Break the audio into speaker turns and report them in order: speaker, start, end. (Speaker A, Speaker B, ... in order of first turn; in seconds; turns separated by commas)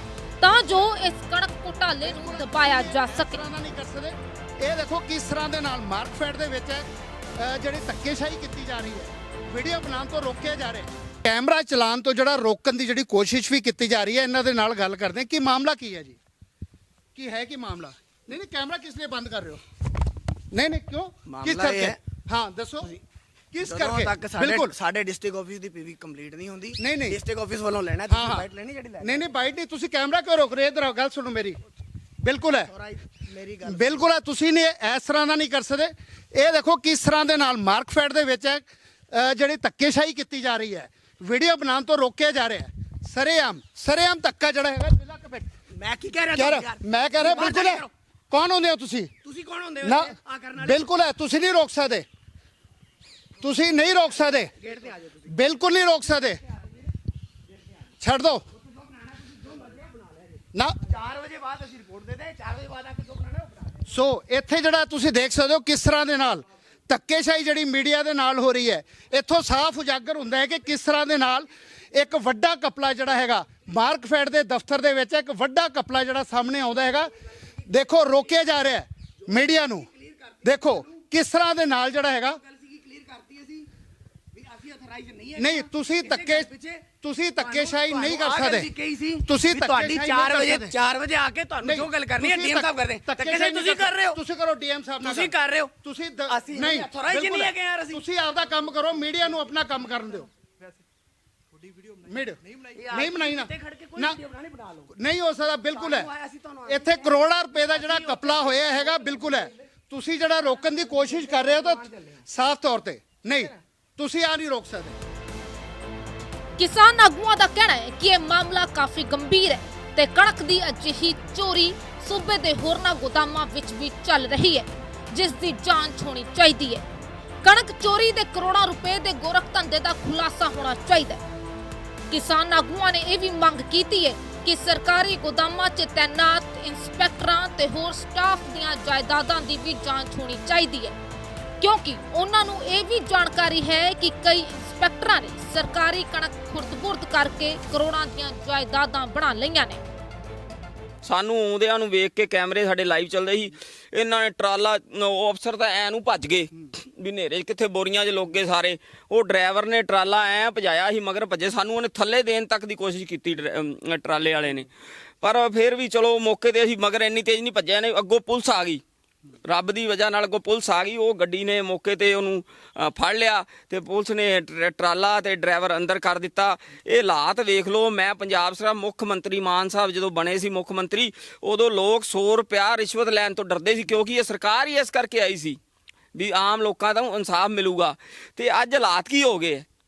Speaker A: 0.4-3.5, Speaker B: 2.0-16.2, Speaker B: 17.1-19.6, Speaker B: 20.5-22.9, Speaker C: 21.3-22.0, Speaker B: 23.5-24.8, Speaker C: 23.6-29.3, Speaker B: 26.8-27.2, Speaker B: 28.1-28.5, Speaker B: 29.0-31.6, Speaker B: 32.2-32.7, Speaker C: 32.7-34.0, Speaker B: 33.6-45.5, Speaker C: 45.8-47.9, Speaker B: 46.3-49.1, Speaker C: 49.2-50.9, Speaker B: 49.8-52.0, Speaker B: 53.4-54.5, Speaker C: 54.6-55.3, Speaker B: 55.3-56.4, Speaker B: 58.0-58.5, Speaker C: 59.0-63.8, Speaker B: 60.5-60.9, Speaker B: 63.9-77.1, Speaker B: 77.7-79.9, Speaker C: 80.0-80.6, Speaker B: 80.4-82.4, Speaker C: 82.5-83.7, Speaker C: 84.3-86.9, Speaker B: 85.4-88.7, Speaker C: 87.4-94.2, Speaker B: 89.2-90.8, Speaker B: 91.6-100.3, Speaker C: 95.0-95.7, Speaker C: 96.3-98.0, Speaker B: 102.0-104.2, Speaker C: 102.6-104.9, Speaker B: 104.9-106.1, Speaker C: 105.7-109.3, Speaker B: 106.7-115.0, Speaker C: 110.9-112.2, Speaker A: 116.6-126.8, Speaker A: 127.4-131.2, Speaker A: 132.1-141.0, Speaker A: 141.6-149.8, Speaker D: 151.0-164.7, Speaker D: 165.2-168.8, Speaker D: 169.5-185.6, Speaker D: 186.2-189.7